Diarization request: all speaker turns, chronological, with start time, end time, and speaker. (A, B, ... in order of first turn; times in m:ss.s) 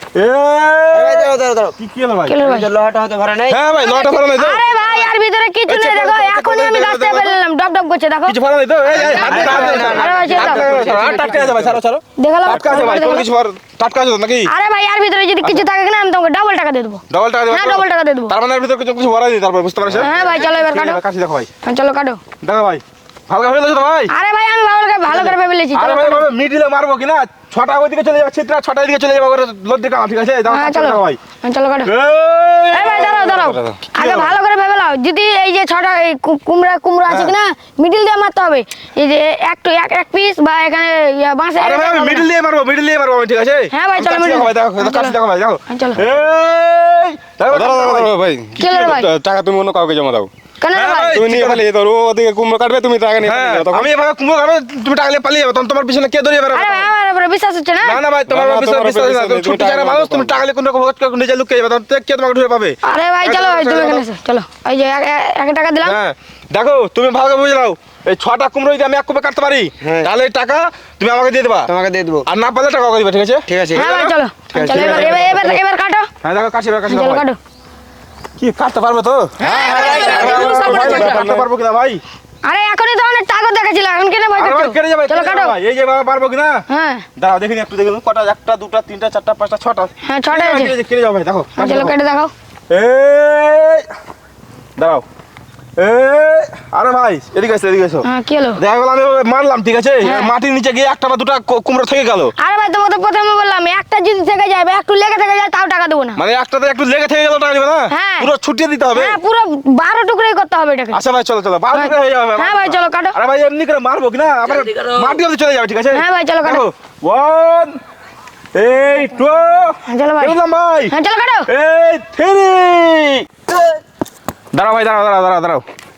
0:00.2-0:02.4 A
0:00.9-0:01.8 B
0:02.3-0:02.7 C
0:02.4-0:03.6 B
0:03.5-0:05.0 A
0:03.8-0:08.4 C
0:05.7-0:07.4 A
0:08.3-0:14.5 A
0:08.9-0:10.8 C
0:09.0-0:11.4 B
0:12.2-0:13.3 C
0:12.6-0:12.9 D
0:14.5-0:18.3 C
0:17.1-0:21.5 A
0:20.0-0:21.0 C
0:21.6-0:22.2 C
0:22.4-0:24.1 A
0:24.1-0:26.2 C
0:25.1-0:31.2 A
0:30.5-0:31.9 C
0:31.9-0:34.3 A
0:32.7-0:42.3 C
0:41.6-0:48.1 A
0:43.7-0:45.2 C
0:45.7-0:46.0 C
0:47.5-0:50.3 D
0:48.6-0:49.1 C
0:50.6-0:51.2 C
0:50.7-0:51.6 A
0:51.1-0:53.9 D
0:53.2-0:56.9 A
0:56.5-0:58.0 C
0:57.8-1:04.1 A
0:58.3-1:00.4 D
1:02.8-1:06.0 C
1:05.8-1:11.7 A
1:09.8-1:10.1 B
1:11.7-1:12.2 B
1:12.3-1:15.5 A
1:13.5-1:13.9 B
1:13.8-1:16.1 C
1:14.5-1:15.4 B
1:16.2-1:17.3 A
1:16.9-1:17.4 C
1:18.4-1:22.0 A
1:19.4-1:20.6 B
1:19.5-1:21.3 C
1:20.2-1:21.5 D
1:22.4-1:25.5 C
1:24.4-1:26.6 A
1:26.7-1:27.0 C
1:27.2-1:31.9 A
1:30.0-1:30.7 C
1:31.6-1:32.3 C
1:32.7-1:33.9 A
1:34.8-1:35.0 A
1:35.8-1:42.3 A
1:38.0-1:38.6 C
1:40.0-1:40.3 C
1:42.4-1:46.2 C
1:46.2-1:49.2 A
1:47.9-1:48.3 C
1:48.9-1:51.0 C
1:50.9-1:57.8 A
1:51.7-1:53.2 C
1:55.9-1:56.6 C
1:58.6-2:00.9 A
1:59.9-2:00.4 C
2:00.9-2:01.5 C
2:01.5-2:03.6 A
2:04.5-2:05.6 A